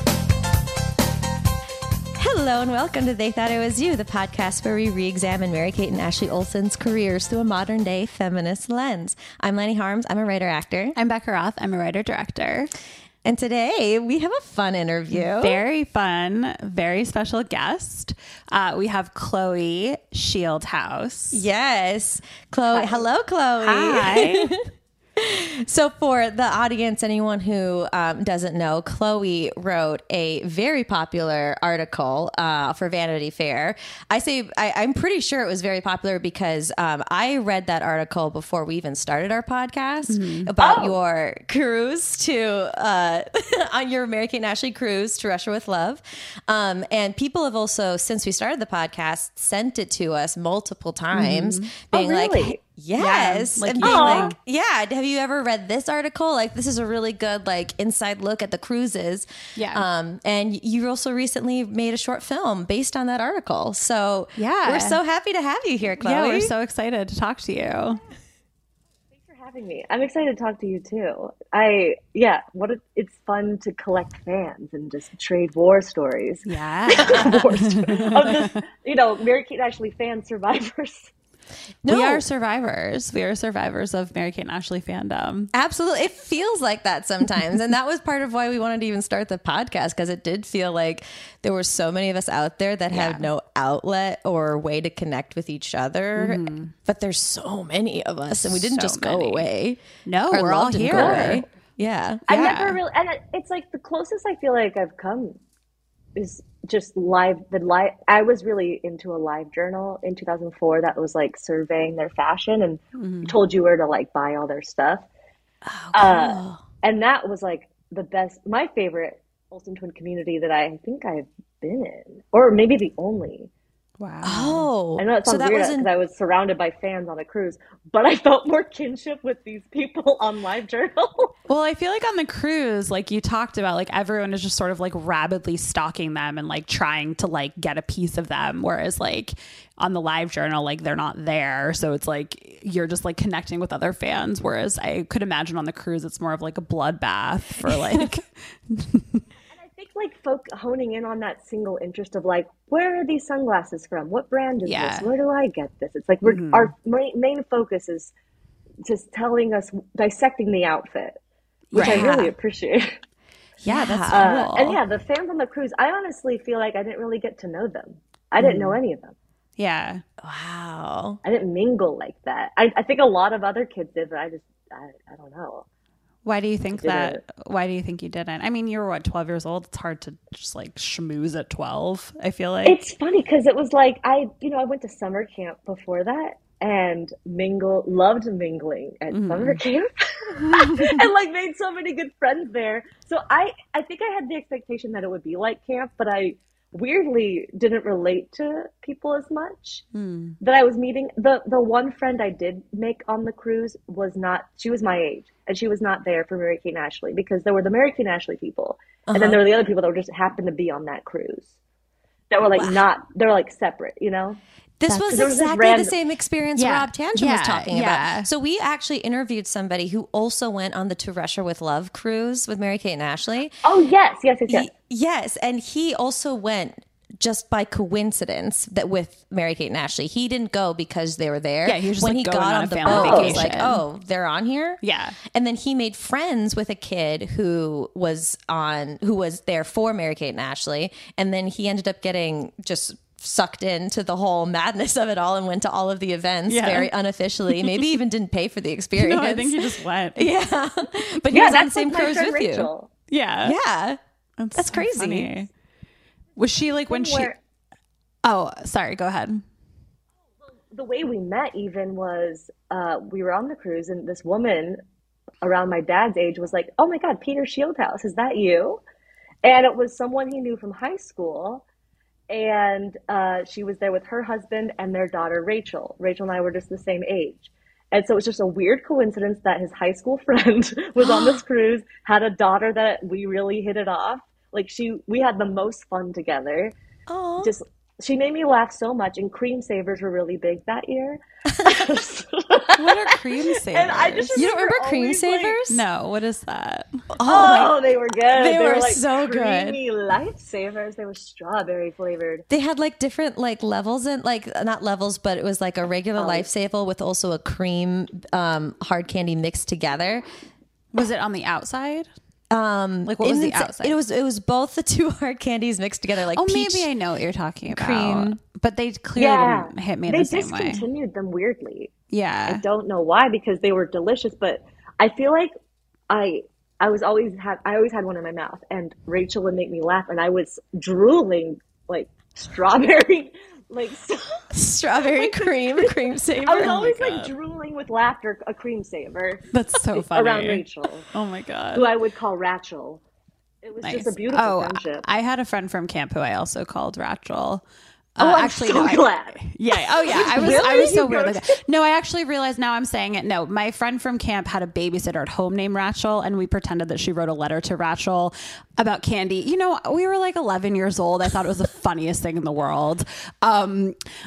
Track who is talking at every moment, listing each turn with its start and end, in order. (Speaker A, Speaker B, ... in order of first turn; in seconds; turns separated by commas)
Speaker A: 2.2-11.0, Speaker B: 11.0-12.7, Speaker A: 13.2-15.6, Speaker B: 15.1-21.4, Speaker A: 21.3-24.6, Speaker C: 22.7-23.0, Speaker B: 23.6-24.6, Speaker A: 25.2-66.5, Speaker B: 40.1-40.5, Speaker C: 40.6-41.0, Speaker B: 51.1-51.7, Speaker C: 51.9-52.6, Speaker B: 53.0-54.3, Speaker C: 53.8-54.3, Speaker B: 59.5-59.9, Speaker B: 64.4-65.0, Speaker B: 66.0-68.0, Speaker C: 69.1-81.1, Speaker B: 76.5-78.6, Speaker A: 77.0-77.4, Speaker A: 81.8-82.2, Speaker B: 81.9-85.5, Speaker A: 85.5-102.5, Speaker B: 92.9-93.3, Speaker B: 96.2-96.7, Speaker B: 98.3-99.5, Speaker B: 100.0-101.4, Speaker C: 100.9-101.5, Speaker B: 102.3-102.8, Speaker C: 102.3-105.4, Speaker C: 106.2-115.1, Speaker B: 113.0-113.3, Speaker A: 115.7-116.6, Speaker C: 115.9-123.5, Speaker B: 124.0-124.7, Speaker A: 124.2-125.9, Speaker C: 125.0-131.3, Speaker B: 131.5-149.2, Speaker A: 147.7-148.1, Speaker C: 149.5-158.1, Speaker B: 154.6-155.1, Speaker B: 156.2-156.7, Speaker C: 158.8-161.2, Speaker B: 161.7-162.2, Speaker C: 161.7-163.0, Speaker A: 161.7-162.3, Speaker A: 163.6-164.8, Speaker B: 163.6-164.8, Speaker C: 164.1-169.2, Speaker B: 168.4-168.7, Speaker B: 169.6-170.0, Speaker A: 170.2-171.2, Speaker C: 171.2-175.7, Speaker B: 176.2-182.8, Speaker C: 176.7-177.2, Speaker C: 182.6-199.8, Speaker B: 189.1-189.6, Speaker B: 199.9-200.4, Speaker C: 200.4-211.5, Speaker A: 209.1-209.4, Speaker C: 212.3-214.4, Speaker A: 212.6-212.8, Speaker A: 214.8-223.5, Speaker C: 215.1-215.9, Speaker B: 216.6-218.3, Speaker C: 223.6-224.7, Speaker A: 224.5-252.7, Speaker B: 231.6-233.8, Speaker C: 232.9-233.5, Speaker B: 234.8-235.2, Speaker B: 246.5-246.9, Speaker B: 247.5-248.0, Speaker B: 248.9-250.3, Speaker C: 251.3-252.9, Speaker B: 253.1-253.6, Speaker A: 253.4-254.0, Speaker B: 254.4-255.5, Speaker A: 254.6-255.5, Speaker B: 256.4-257.3, Speaker C: 256.6-257.4, Speaker B: 258.2-259.4, Speaker C: 260.4-264.8, Speaker C: 265.4-268.8, Speaker C: 269.4-271.6, Speaker C: 272.3-286.7, Speaker A: 281.0-281.4, Speaker A: 287.1-287.5, Speaker C: 287.4-295.6, Speaker A: 291.6-291.9, Speaker B: 292.8-294.4, Speaker A: 294.4-295.8, Speaker B: 295.7-297.1, Speaker A: 297.2-297.8, Speaker C: 297.2-302.4, Speaker A: 298.3-299.8, Speaker A: 302.5-310.2, Speaker C: 306.2-306.5, Speaker B: 310.9-312.1, Speaker A: 312.5-316.9, Speaker B: 313.1-314.0, Speaker B: 316.3-320.8, Speaker A: 317.7-318.4, Speaker C: 319.2-321.9, Speaker B: 322.1-322.6, Speaker C: 322.5-325.5, Speaker C: 326.1-339.4, Speaker A: 334.5-337.0, Speaker B: 336.6-337.3, Speaker B: 339.5-341.9, Speaker C: 339.9-341.1, Speaker C: 341.7-343.0, Speaker C: 343.6-345.1, Speaker B: 343.8-347.6, Speaker B: 348.2-364.0, Speaker C: 348.2-351.5